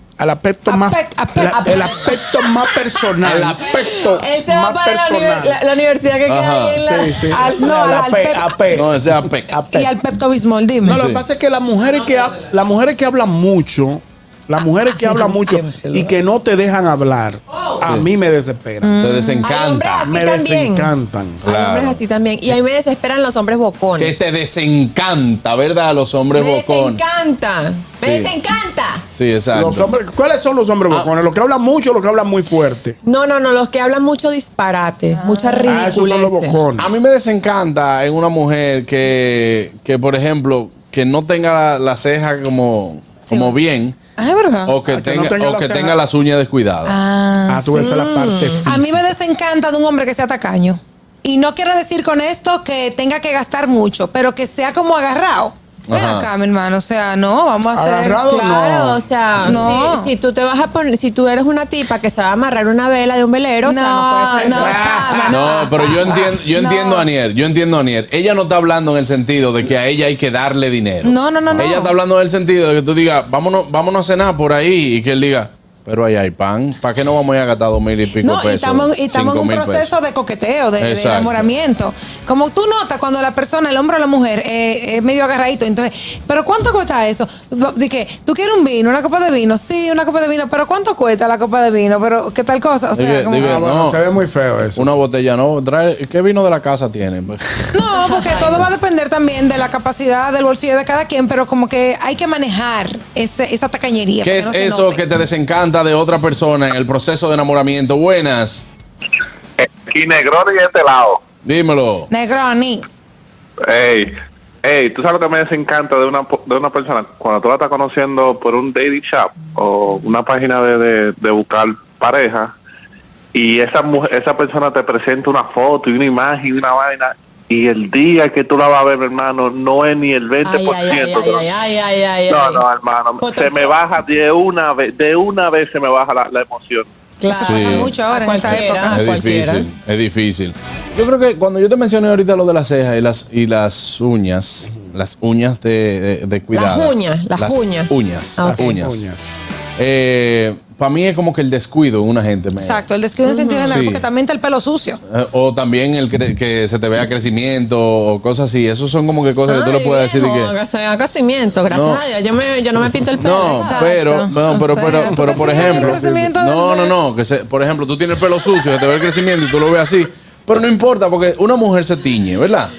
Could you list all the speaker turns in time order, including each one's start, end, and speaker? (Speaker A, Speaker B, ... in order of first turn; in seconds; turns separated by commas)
Speaker A: 0.2-5.6, Speaker B: 0.7-2.0, Speaker C: 3.2-3.7, Speaker D: 3.9-7.3, Speaker C: 6.2-6.8, Speaker A: 6.8-10.0, Speaker B: 7.3-8.5, Speaker C: 8.7-9.5, Speaker B: 9.7-11.0, Speaker A: 10.8-18.9, Speaker C: 10.9-11.2, Speaker D: 14.9-16.1, Speaker B: 18.8-19.5, Speaker C: 19.0-20.1, Speaker D: 19.4-20.9, Speaker A: 20.0-21.4, Speaker C: 21.4-22.0, Speaker D: 21.4-24.1, Speaker C: 24.0-27.0, Speaker D: 26.3-29.0, Speaker C: 28.0-28.4, Speaker C: 29.1-29.9, Speaker A: 29.5-33.0, Speaker D: 33.0-36.6, Speaker B: 35.1-35.7, Speaker A: 35.6-36.9, Speaker C: 36.8-44.0, Speaker B: 43.3-43.5, Speaker B: 44.2-44.7, Speaker C: 44.6-47.0, Speaker A: 44.9-46.0, Speaker B: 46.9-47.8, Speaker A: 47.5-49.0, Speaker D: 47.7-48.6, Speaker B: 48.6-58.2, Speaker C: 55.9-56.3, Speaker A: 57.7-59.6, Speaker D: 58.2-66.4, Speaker B: 59.4-60.1, Speaker B: 63.6-65.2, Speaker A: 64.4-65.4, Speaker C: 65.3-79.9, Speaker B: 66.4-67.1, Speaker B: 71.0-71.9, Speaker B: 78.2-93.6, Speaker C: 80.8-81.5, Speaker C: 92.9-94.0, Speaker A: 93.4-95.0, Speaker C: 94.7-97.8, Speaker B: 97.7-105.0, Speaker D: 97.9-98.7, Speaker C: 104.2-108.7, Speaker E: 109.6-111.2, Speaker C: 111.4-112.1, Speaker B: 112.1-112.8, Speaker E: 113.7-122.5, Speaker E: 123.3-131.5, Speaker D: 130.4-133.8, Speaker E: 132.3-136.9, Speaker D: 137.2-139.7, Speaker B: 137.2-139.0, Speaker C: 137.4-149.1, Speaker D: 146.5-148.8, Speaker A: 148.4-149.3, Speaker C: 149.8-152.8, Speaker B: 152.6-155.0, Speaker D: 153.2-153.8, Speaker C: 153.7-154.0, Speaker C: 155.1-160.5, Speaker D: 159.4-164.0, Speaker C: 161.7-162.0, Speaker C: 163.2-172.7, Speaker B: 163.6-166.9, Speaker A: 164.9-166.3